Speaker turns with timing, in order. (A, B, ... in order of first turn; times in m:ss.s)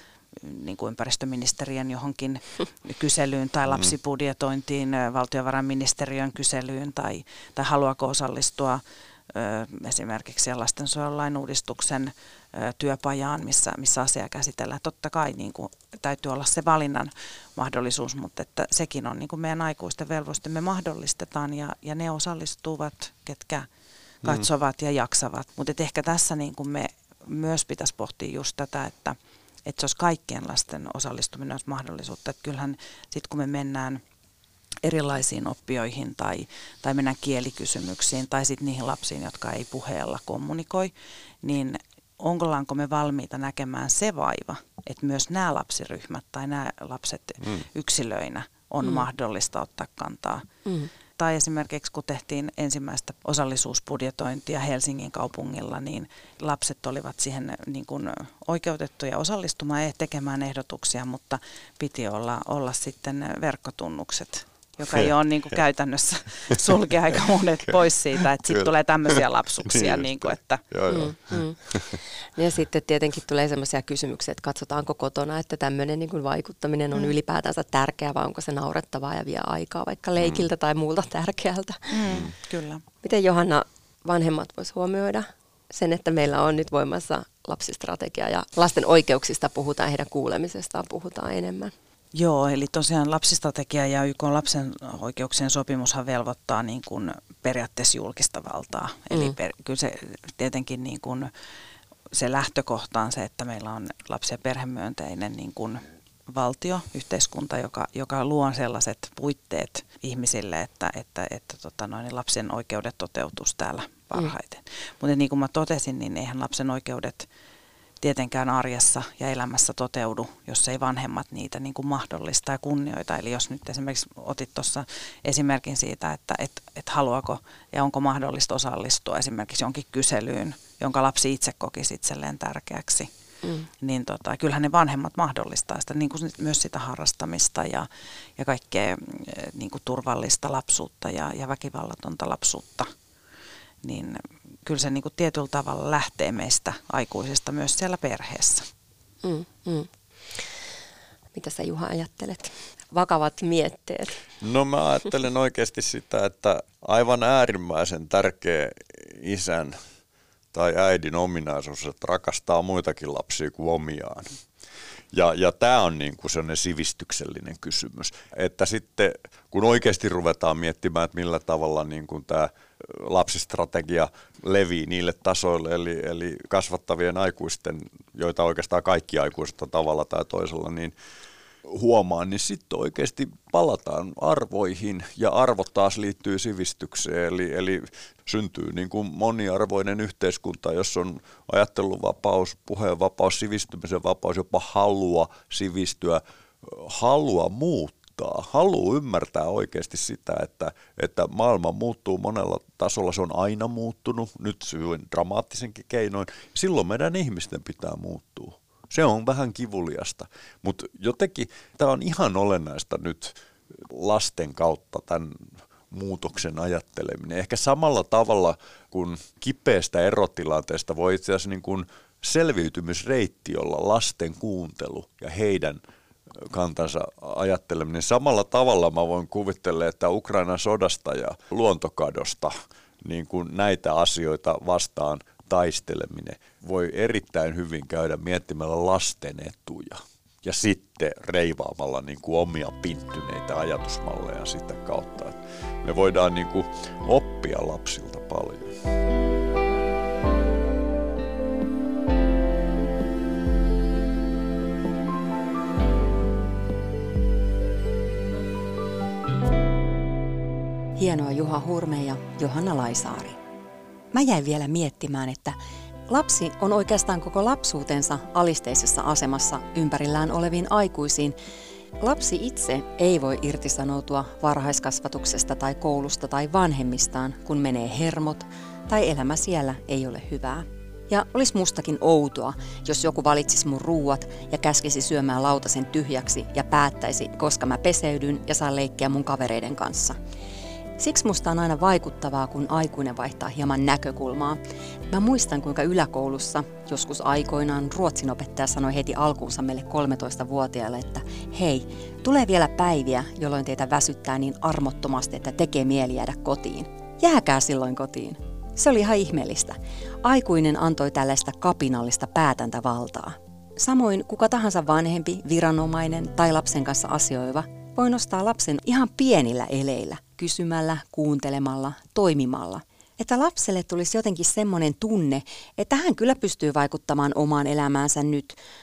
0:00.4-0:23.7 A
0:03.7-0:03.9 B
0:24.2-0:34.0 A
0:34.8-0:50.4 A
0:51.2-1:10.6 A
1:07.7-1:12.0 B
1:10.9-1:22.1 C
1:20.2-1:20.5 B
1:21.9-1:22.8 A
1:22.1-1:22.3 B
1:23.0-1:31.7 C
1:32.2-1:41.3 A
1:42.1-1:57.3 A
1:58.0-2:13.1 A
2:13.8-2:22.9 A
2:23.8-2:28.7 A
2:29.2-2:30.5 C
2:31.3-2:34.2 C
2:34.4-2:39.8 B
2:40.5-2:44.4 B
2:45.1-3:01.0 B
3:01.7-3:45.8 B
3:46.4-4:08.8 B
4:21.0-4:23.4 D
4:24.1-4:25.6 D
4:26.1-4:31.4 D
4:32.0-4:50.2 D
4:51.0-5:28.6 D